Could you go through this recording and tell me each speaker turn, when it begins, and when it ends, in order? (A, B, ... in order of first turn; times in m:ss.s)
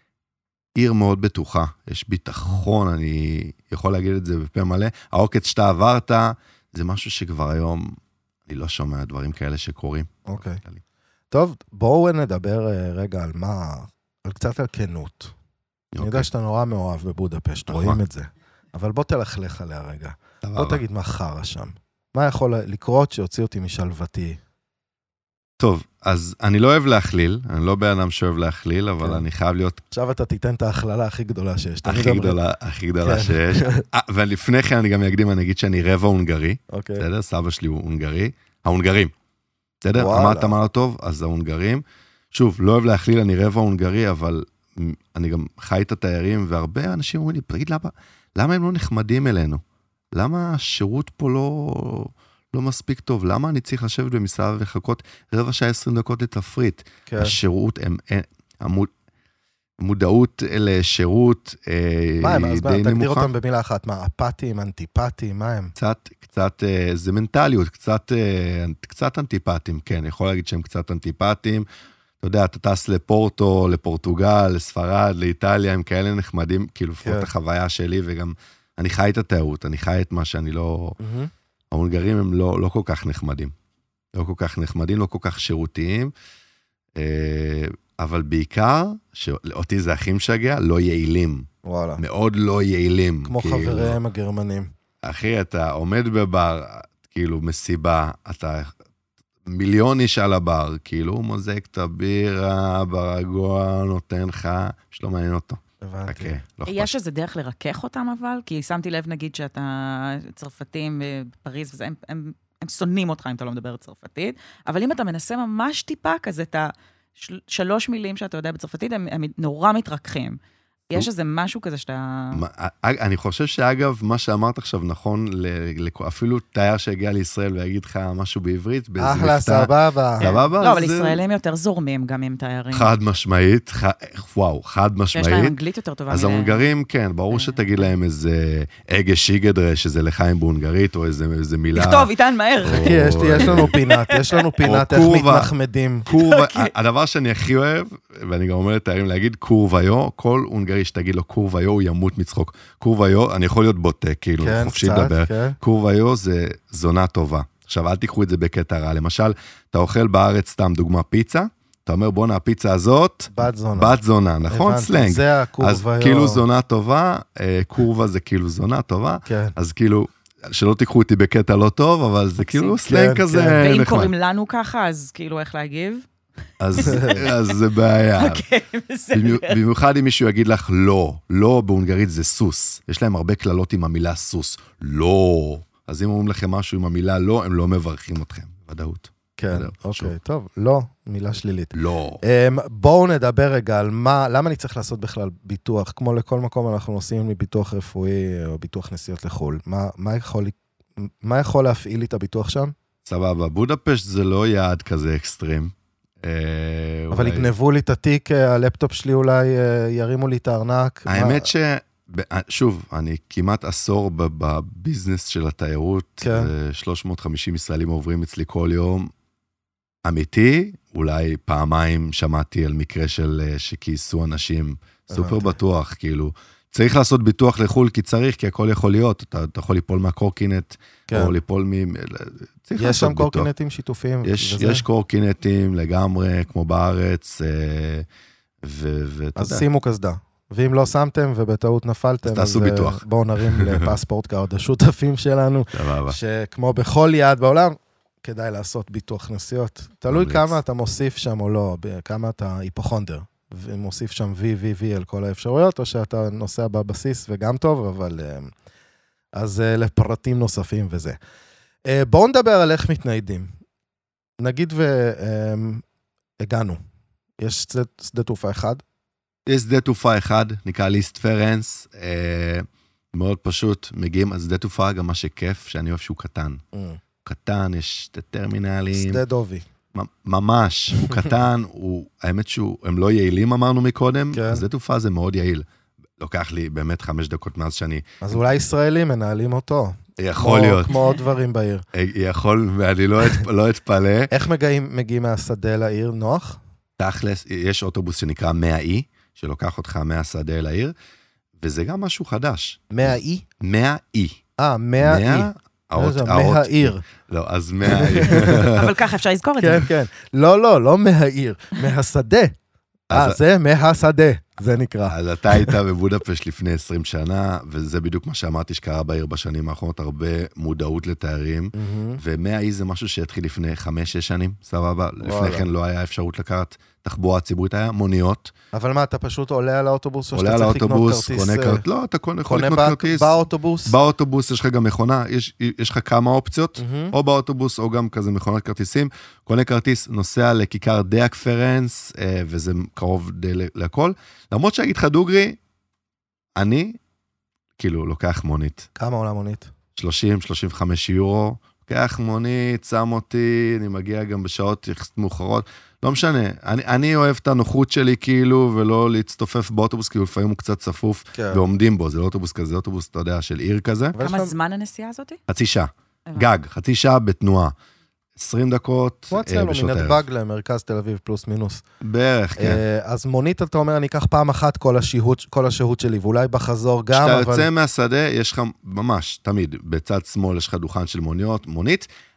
0:00.8-0:10.8 A
0:10.3-0:10.6 B
0:11.3-0:15.3 B
0:15.9-0:16.3 A
0:16.0-0:24.4 B
0:17.7-0:18.0 A
0:20.4-0:20.8 A
0:25.6-0:29.8 A
0:29.9-0:32.4 B
0:31.8-0:39.1 A
0:33.0-0:33.8 B
0:36.7-0:37.1 B
0:39.8-0:49.6 A
0:40.0-0:40.6 B
0:50.1-0:58.9 A
0:57.1-0:57.4 B
0:59.8-1:03.3 A
1:02.2-1:05.7 B
1:05.8-1:11.6 A
1:12.2-1:21.0 A
1:17.0-1:17.3 B
1:21.0-1:21.3 B
1:21.7-1:23.5 A
1:24.1-1:26.1 A
1:27.0-1:34.0 A
1:31.6-1:32.0 B
1:33.3-1:34.7 B
1:35.0-1:38.7 A
1:39.4-1:46.9 A
1:45.8-1:46.4 B
1:46.6-2:00.4 C
2:00.9-2:02.4 C
2:02.3-2:11.2 A
2:09.0-2:10.3 B
2:10.2-2:12.9 C
2:12.7-2:15.6 A
2:15.1-2:16.7 C
2:16.1-2:22.1 A
2:17.3-2:17.8 C
2:21.7-2:24.5 C
2:22.6-2:23.7 A
2:22.7-2:26.1 B
2:24.6-2:25.5 A
2:26.1-2:54.1 A
2:26.1-2:26.7 C
2:34.4-2:35.6 B
2:43.3-2:44.0 B
2:44.5-2:46.4 B
2:49.2-2:49.6 B
2:52.4-2:52.8 C
2:52.9-2:53.6 B
2:53.6-2:56.1 C
2:56.6-2:58.4 A
2:56.7-2:57.6 C
2:56.8-2:57.2 B
2:58.2-2:59.6 C
2:59.1-3:10.1 A
3:09.4-3:22.7 B
3:11.7-3:12.2 A
3:23.0-3:27.5 A
3:27.1-3:31.5 B
3:31.1-3:39.1 A
3:36.2-3:36.5 B
3:40.0-3:53.5 A
3:45.1-3:45.6 B
3:51.1-3:51.4 B
3:52.8-3:54.8 B
3:54.2-3:58.1 A
3:58.6-3:59.6 A
3:59.4-4:18.5 B
4:02.2-4:03.9 A
4:05.7-4:06.2 A
4:10.1-4:10.6 A
4:19.4-4:21.2 B
4:21.9-4:23.5 B
4:24.4-4:25.8 B
4:26.4-4:26.8 B
4:27.4-4:28.8 B
4:29.5-4:36.6 A
4:36.7-4:37.0 B
4:37.2-4:39.2 A
4:38.9-4:39.6 B
4:39.9-4:45.6 A
4:44.3-4:44.6 B
4:46.2-4:48.4 A
4:48.2-4:51.8 B
4:50.2-4:50.9 A
4:50.9-4:51.2 C
4:51.9-4:54.3 A
4:54.3-4:56.6 B
4:57.0-5:00.9 A
5:01.6-5:02.9 A
5:02.9-5:03.5 B
5:03.6-5:04.4 A
5:04.6-5:07.0 B
5:05.0-5:08.9 A
5:07.8-5:08.6 B
5:08.4-5:09.9 C
5:09.6-5:12.5 B
5:13.1-5:13.4 A
5:13.1-5:15.8 B
5:15.1-5:28.5 A
5:21.7-5:22.2 B
5:25.2-5:25.6 B
5:28.7-5:31.8 B
5:30.3-5:45.6 A
5:32.4-5:34.0 B
5:36.8-5:37.1 B
5:46.6-5:47.0 A
5:47.8-5:48.9 A
5:49.0-5:49.7 B
5:50.0-6:04.2 A
6:01.3-6:01.6 B
6:04.1-6:04.5 B
6:04.2-6:05.4 C
6:05.5-6:07.7 A
6:08.4-6:10.2 A
6:09.3-6:11.8 B
6:12.0-6:12.8 A
6:12.6-6:17.7 B
6:17.1-6:22.1 A